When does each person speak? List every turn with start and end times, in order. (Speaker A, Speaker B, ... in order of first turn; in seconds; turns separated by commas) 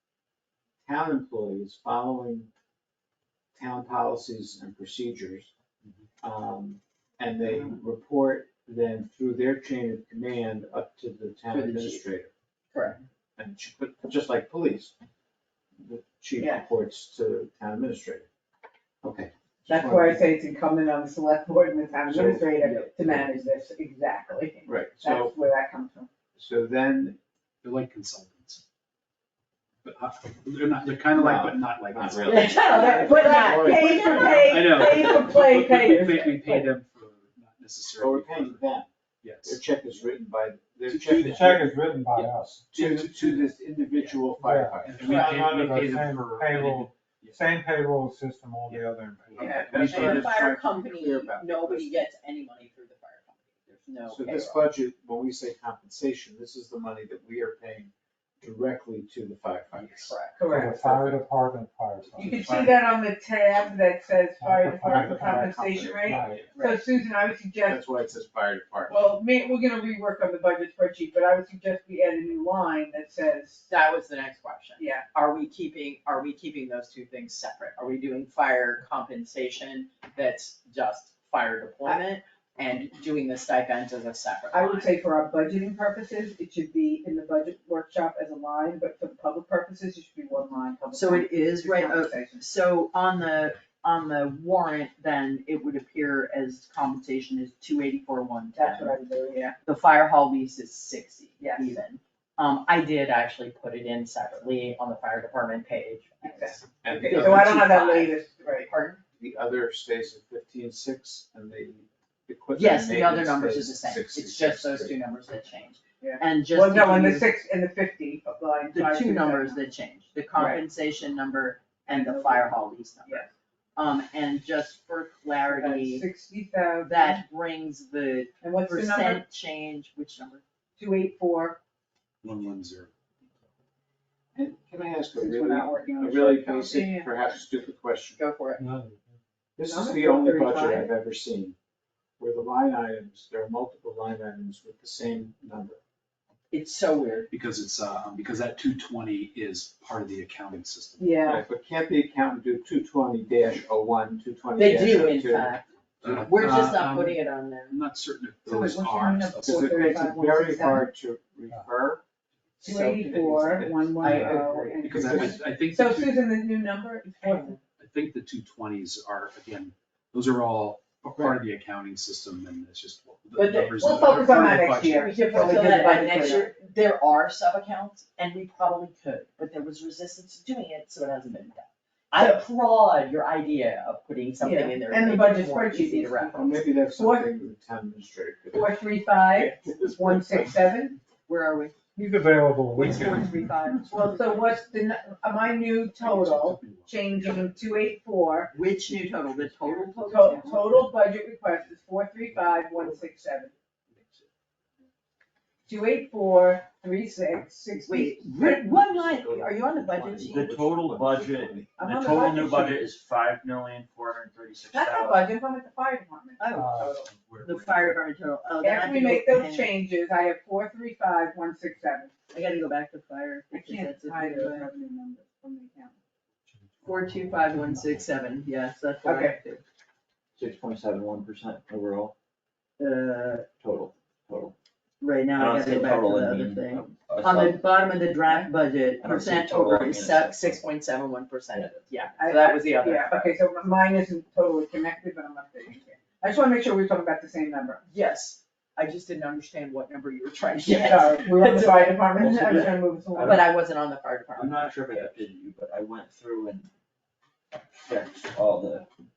Speaker A: 0.8-2.5, Speaker A: 3.5-5.5, Speaker A: 6.2-12.3, Speaker B: 11.5-12.1, Speaker B: 12.7-13.0, Speaker A: 13.4-14.9, Speaker A: 15.8-18.2, Speaker C: 16.4-16.7, Speaker A: 19.0-20.2, Speaker C: 19.7-26.1, Speaker A: 22.1-22.7, Speaker A: 24.7-25.4, Speaker A: 26.4-27.2, Speaker D: 27.6-28.6, Speaker D: 29.8-38.6, Speaker A: 31.1-34.0, Speaker B: 32.3-34.9, Speaker C: 32.5-36.7, Speaker A: 38.0-38.9, Speaker D: 39.2-39.7, Speaker A: 39.4-41.7, Speaker D: 40.9-41.5, Speaker E: 41.0-42.6, Speaker D: 42.1-44.2, Speaker A: 42.7-45.6, Speaker E: 44.4-49.7, Speaker D: 44.8-47.4, Speaker B: 45.0-45.3, Speaker D: 48.7-50.3, Speaker C: 49.4-50.2, Speaker A: 49.4-52.1, Speaker B: 49.8-54.7, Speaker A: 54.1-60.1, Speaker B: 59.8-60.4, Speaker C: 60.4-60.8, Speaker E: 60.5-62.7, Speaker A: 60.8-61.2, Speaker C: 62.2-67.8, Speaker D: 62.5-62.7, Speaker E: 64.4-66.5, Speaker A: 64.8-66.5, Speaker B: 66.5-66.8, Speaker A: 67.6-69.0, Speaker C: 68.9-73.7, Speaker B: 73.7-84.9, Speaker C: 74.8-75.0, Speaker C: 84.5-92.4, Speaker B: 90.9-99.0, Speaker C: 98.5-99.6, Speaker B: 99.6-109.0, Speaker C: 101.4-101.8, Speaker C: 106.2-108.7, Speaker A: 106.8-107.7, Speaker A: 109.2-115.0, Speaker B: 112.5-117.3, Speaker C: 116.0-119.6, Speaker B: 118.7-126.1, Speaker C: 120.3-120.6, Speaker C: 121.9-123.3, Speaker C: 125.5-127.2, Speaker B: 126.8-130.4, Speaker C: 128.4-129.2, Speaker C: 130.8-131.6, Speaker D: 132.2-132.9, Speaker A: 134.3-138.2, Speaker C: 135.2-137.1, Speaker B: 138.2-138.6, Speaker E: 138.6-139.1, Speaker A: 139.6-141.6, Speaker C: 139.7-140.9, Speaker A: 142.2-145.8, Speaker B: 146.5-147.3, Speaker D: 147.3-151.1, Speaker C: 151.0-151.4, Speaker A: 151.2-155.6, Speaker B: 154.6-157.8, Speaker D: 156.0-160.1, Speaker C: 158.5-160.9, Speaker A: 159.4-162.0, Speaker A: 162.6-164.1, Speaker C: 162.6-167.6, Speaker B: 162.6-165.0, Speaker D: 164.0-166.4, Speaker A: 164.9-165.4, Speaker B: 167.2-167.6, Speaker D: 167.8-175.9, Speaker C: 173.4-176.5, Speaker B: 174.9-186.4, Speaker C: 184.4-187.3, Speaker A: 186.3-188.8, Speaker C: 188.5-191.0, Speaker B: 191.3-191.8, Speaker E: 192.0-193.4, Speaker B: 192.8-194.2, Speaker D: 193.7-194.5, Speaker C: 193.9-198.5, Speaker D: 196.0-200.9, Speaker B: 198.5-200.8, Speaker C: 200.1-203.5, Speaker D: 201.6-204.3, Speaker C: 205.7-208.7, Speaker B: 207.9-210.6, Speaker A: 208.7-211.7, Speaker F: 210.2-215.3, Speaker C: 211.8-212.8, Speaker C: 214.7-217.1, Speaker B: 216.4-219.7, Speaker E: 216.5-217.0, Speaker F: 217.1-218.0, Speaker C: 218.6-222.1, Speaker B: 222.3-224.7, Speaker C: 223.5-226.0, Speaker E: 226.5-228.0, Speaker B: 226.8-229.6, Speaker C: 229.1-229.4, Speaker F: 230.4-232.1, Speaker B: 232.8-233.5, Speaker F: 233.6-234.5, Speaker B: 235.0-243.3, Speaker F: 235.3-237.7, Speaker F: 239.0-240.7, Speaker F: 241.6-242.0, Speaker C: 242.2-247.8, Speaker B: 247.9-252.1, Speaker C: 250.6-253.4, Speaker F: 252.1-253.5, Speaker B: 253.2-255.2, Speaker F: 254.3-256.7, Speaker F: 257.8-258.9